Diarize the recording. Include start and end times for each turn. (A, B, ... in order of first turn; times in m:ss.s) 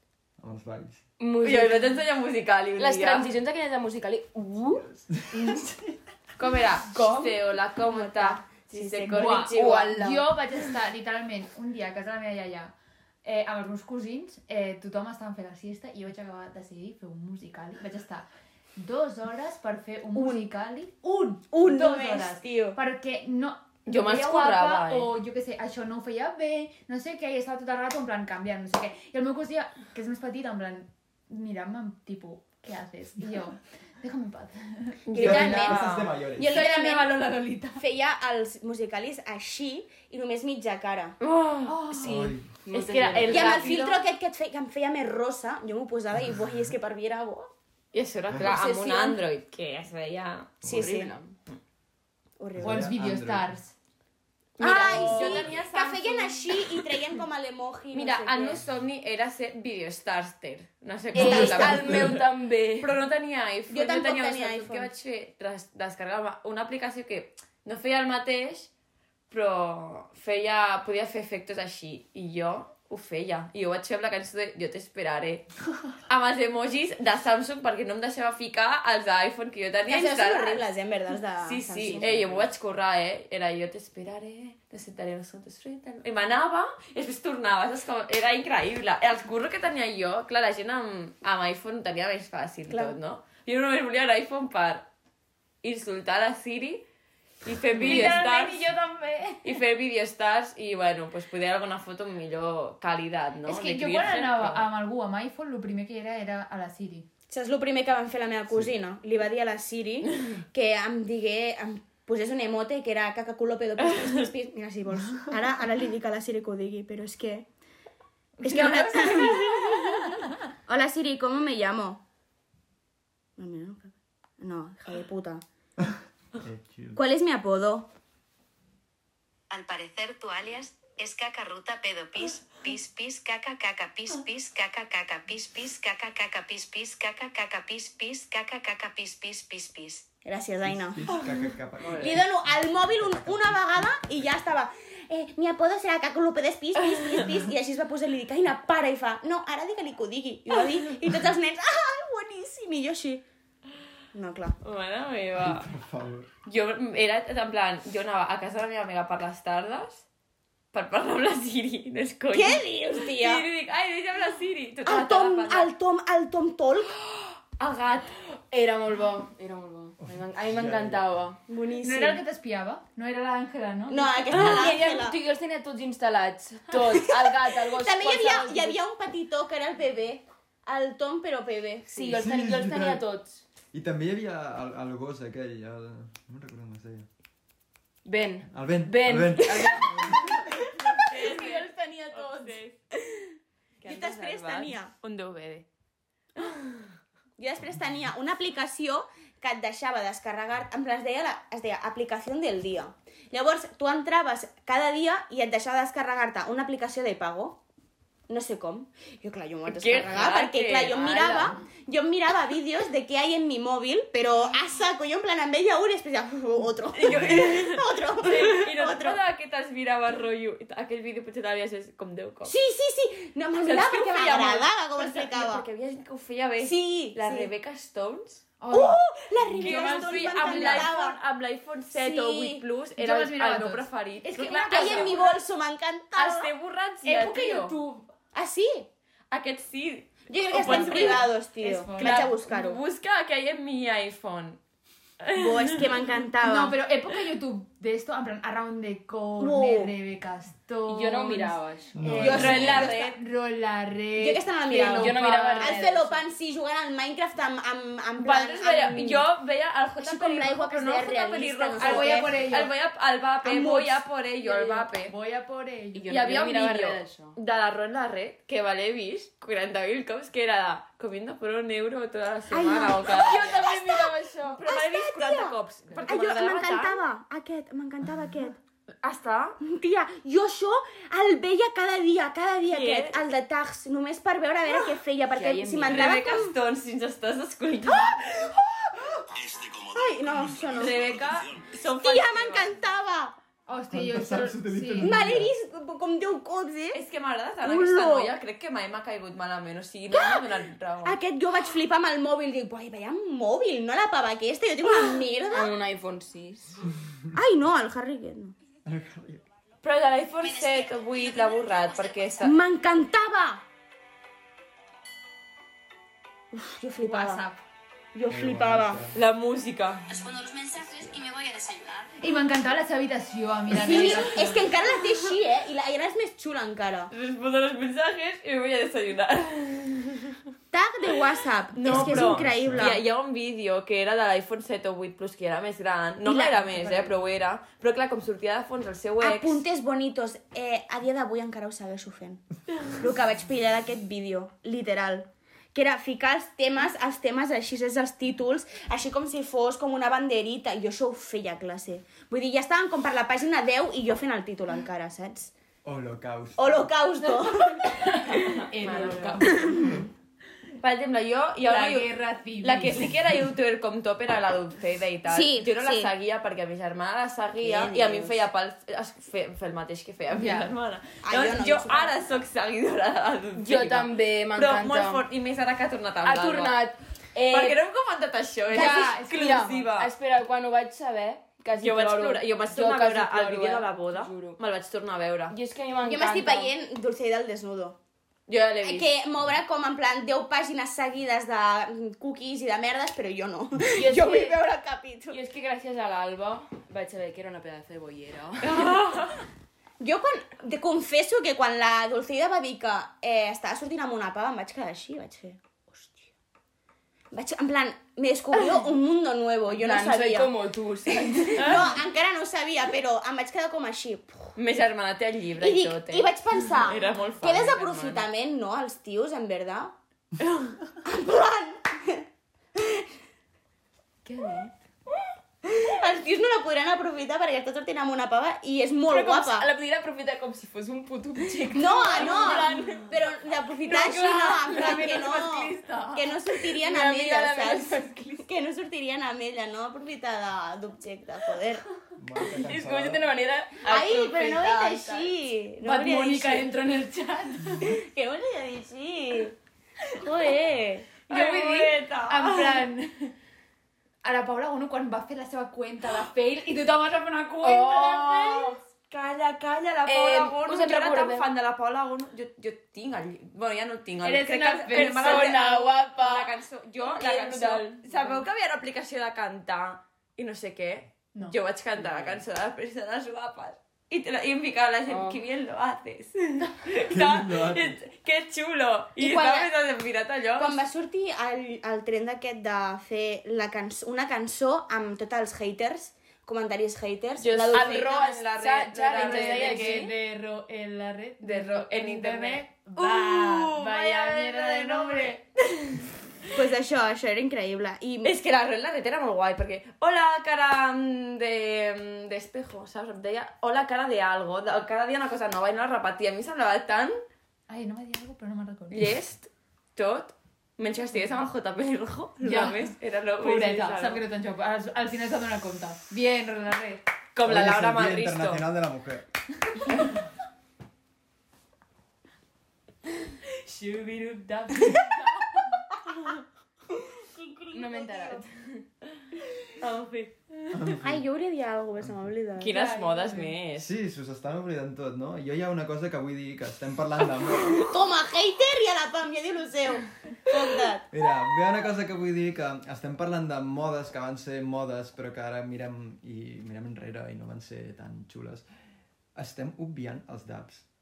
0:00.4-0:01.0 A
0:01.2-0:02.0 B
0:01.4-0:03.3 C
0:02.8-0:05.7 B
0:05.1-0:05.6 A
0:06.4-0:10.0 C
0:06.9-0:09.6 D
0:09.1-0:12.7 E
0:09.4-0:10.3 B
0:13.2-0:35.1 E
0:20.2-0:20.4 D
0:21.5-0:22.8 D
0:23.8-0:25.1 C
0:35.1-0:37.3 C
0:35.1-0:37.2 D
0:35.2-0:36.6 A
0:36.6-0:37.6 E
0:37.8-0:41.2 D
0:41.2-0:41.8 C
0:41.6-0:42.2 E
0:41.9-0:43.8 B
0:42.0-0:42.5 A
0:42.7-0:43.8 C
0:43.2-0:44.0 E
0:43.2-0:47.5 D
0:47.9-0:50.6 C
0:48.5-0:49.2 B
0:48.6-0:49.0 D
0:50.6-0:51.4 B
0:50.6-0:51.1 D
0:52.4-0:52.9 D
0:52.6-0:53.5 A
0:52.6-0:53.7 E
0:54.6-0:56.9 C
0:54.6-0:58.6 D
0:54.6-0:55.5 B
0:57.9-1:02.2 C
1:01.1-1:02.2 A
1:01.1-1:03.0 B
1:01.2-1:01.9 D
1:02.8-1:08.7 C
1:03.7-1:04.9 D
1:09.3-1:15.5 C
1:16.1-1:20.7 C
1:19.9-1:22.5 D
1:21.4-1:34.9 C
1:32.7-1:33.0 D
1:35.6-1:36.8 C
1:37.4-1:38.7 C
1:37.8-1:39.4 B
1:37.8-1:39.4 E
1:39.4-1:44.7 C
1:43.5-1:47.1 E
1:47.3-1:57.5 D
1:53.8-1:54.2 C
1:58.4-1:59.9 E
1:58.4-2:02.0 D
2:03.4-2:05.4 D
2:05.8-2:07.0 A
2:07.0-2:07.9 D
2:09.5-2:20.1 F
2:20.2-2:21.2 D
2:20.6-2:24.4 A
2:21.9-2:22.1 B
2:21.9-2:33.2 D
2:34.1-2:34.6 D
2:34.6-2:35.7 C
2:35.4-2:36.3 A
2:36.5-2:40.0 C
2:40.7-2:45.7 C
2:42.3-2:43.4 D
2:44.9-2:47.0 D
2:47.6-2:48.3 C
2:48.5-2:51.4 B
2:50.0-2:51.1 A
2:51.5-2:52.2 D
2:51.8-2:54.3 E
2:53.9-2:55.2 D
2:54.3-2:58.8 B
2:56.9-3:02.2 D
3:01.9-3:03.4 B
3:02.1-3:03.0 A
3:03.7-3:07.1 A
3:08.0-3:12.7 B
3:08.5-3:10.1 A
3:10.1-3:12.8 C
3:13.8-3:15.7 C
3:13.8-3:14.9 D
3:16.5-3:16.8 C
3:17.4-3:27.6 D
3:28.3-3:39.2 D
3:29.7-3:31.5 C
3:36.9-3:42.5 C
3:37.0-3:37.6 A
3:42.5-3:45.6 D
3:43.6-3:48.4 C
3:46.6-3:47.5 D
3:48.6-3:50.8 E
3:48.7-3:51.2 D
3:49.6-3:55.3 C
3:49.7-3:50.9 B
3:51.9-3:52.6 D
3:53.0-3:55.4 E
3:54.7-3:56.5 D
3:56.2-3:57.8 C
3:57.0-3:58.1 E
3:58.3-3:58.9 D
3:59.3-4:01.3 C
4:00.3-4:02.8 D
4:00.5-4:02.3 E
4:02.0-4:04.6 C
4:05.2-4:06.1 C
4:05.3-4:06.8 D
4:06.4-4:15.8 E
4:09.4-4:09.9 D
4:10.9-4:12.5 B
4:11.9-4:12.9 A
4:12.2-4:13.2 D
4:12.2-4:13.1 C
4:14.2-4:19.3 D
4:14.8-4:16.2 B
4:18.2-4:25.1 C
4:20.0-4:22.5 D
4:21.8-4:22.7 E
4:23.4-4:24.0 D
4:24.5-4:26.1 E
4:25.9-4:27.4 B
4:26.1-4:33.6 C
4:32.5-4:35.6 D
4:33.0-4:34.7 B
4:34.5-4:37.0 C
4:36.1-4:38.6 D
4:39.0-4:39.6 C
4:39.6-4:46.6 D
4:42.6-4:43.2 C
4:45.3-4:46.2 B
4:45.9-4:48.2 C
4:47.9-4:51.1 D
4:50.7-4:52.7 C
4:51.9-4:53.4 D
4:53.7-4:55.2 E
4:53.9-4:55.5 A
4:55.0-4:57.0 D
4:56.9-5:01.2 C
4:57.6-4:58.3 D
5:00.1-5:00.5 D
5:01.0-5:05.8 D
5:05.5-5:06.8 B
5:07.3-5:08.6 D
5:08.8-5:09.4 A
5:09.8-5:12.5 C
5:12.4-5:13.6 D
5:16.5-5:17.4 D
5:17.0-5:17.6 E
5:18.1-5:19.0 D
5:18.3-5:19.2 A
5:19.1-5:20.1 C
5:20.1-5:21.8 D
5:22.2-5:24.7 E
5:23.7-5:27.1 D
5:23.9-5:24.2 C
5:27.1-5:30.4 C
5:30.7-5:33.0 D
5:31.7-5:39.6 C
5:31.8-5:33.0 A
5:36.2-5:37.1 D
5:39.2-5:55.5 D
5:55.8-5:56.9 A
5:56.6-5:57.8 D
5:57.5-5:59.8 E
5:58.4-6:00.0 B
5:58.7-5:59.8 C
6:00.8-6:02.1 C
6:01.6-6:03.1 E
6:02.6-6:16.8 C
6:05.3-6:06.1 D
6:07.6-6:08.4 D
6:10.3-6:10.7 E
6:11.2-6:12.2 D
6:13.6-6:15.2 B
6:16.2-6:17.8 B
6:17.5-6:20.1 C
6:18.7-6:19.1 D
6:18.7-6:19.6 E
6:18.8-6:24.6 B
6:21.8-6:25.6 C
6:25.5-6:26.7 B
6:26.0-6:28.0 D
6:28.5-6:29.1 C
6:28.8-6:35.4 D
6:33.9-6:34.6 B
6:35.3-6:39.1 B
6:38.6-6:39.4 C
6:40.0-6:46.3 D
6:47.3-6:50.6 D
6:49.7-6:52.0 B
6:51.1-6:54.5 D
6:51.6-6:51.9 C
6:54.6-6:58.3 C
6:55.6-6:59.9 D
7:01.0-7:03.0 D
7:05.6-7:09.7 D
7:09.1-7:18.5 B
7:11.6-7:21.8 D
7:22.2-7:23.3 A
7:22.4-7:25.3 B
7:23.8-7:26.7 D
7:25.8-7:28.0 E
7:27.8-7:29.6 D
7:30.2-7:31.1 D
7:31.3-7:32.9 C
7:31.3-7:33.3 E
7:34.2-7:38.8 E
7:37.6-7:38.8 B
7:39.1-8:00.8 C
7:40.1-7:41.5 B
7:44.2-7:45.6 E
7:44.4-7:46.5 B
7:47.0-7:48.4 B
7:55.1-7:55.4 B
7:57.1-7:58.0 A
7:59.2-7:59.7 D
8:00.6-8:08.1 D
8:07.4-8:10.2 B
8:07.7-8:10.1 C
8:09.1-8:15.4 E
8:11.4-8:16.1 C
8:13.2-8:15.3 B
8:16.5-8:18.3 D
8:18.2-8:27.2 C
8:27.7-8:29.0 E
8:28.9-8:34.2 C
8:32.4-8:37.0 E
8:37.3-8:38.7 C
8:37.4-8:39.2 A
8:43.6-8:45.2 B
8:47.7-8:48.4 D
8:47.7-8:48.8 B
8:49.8-8:51.0 C
8:50.7-8:51.2 A
8:51.0-8:52.8 D
8:52.0-8:52.3 A
8:52.6-8:53.9 C
8:52.6-8:53.6 E
8:53.8-8:57.8 A
8:57.4-8:57.8 C
8:57.7-9:01.1 D
9:01.1-9:08.6 A
9:09.4-9:10.8 A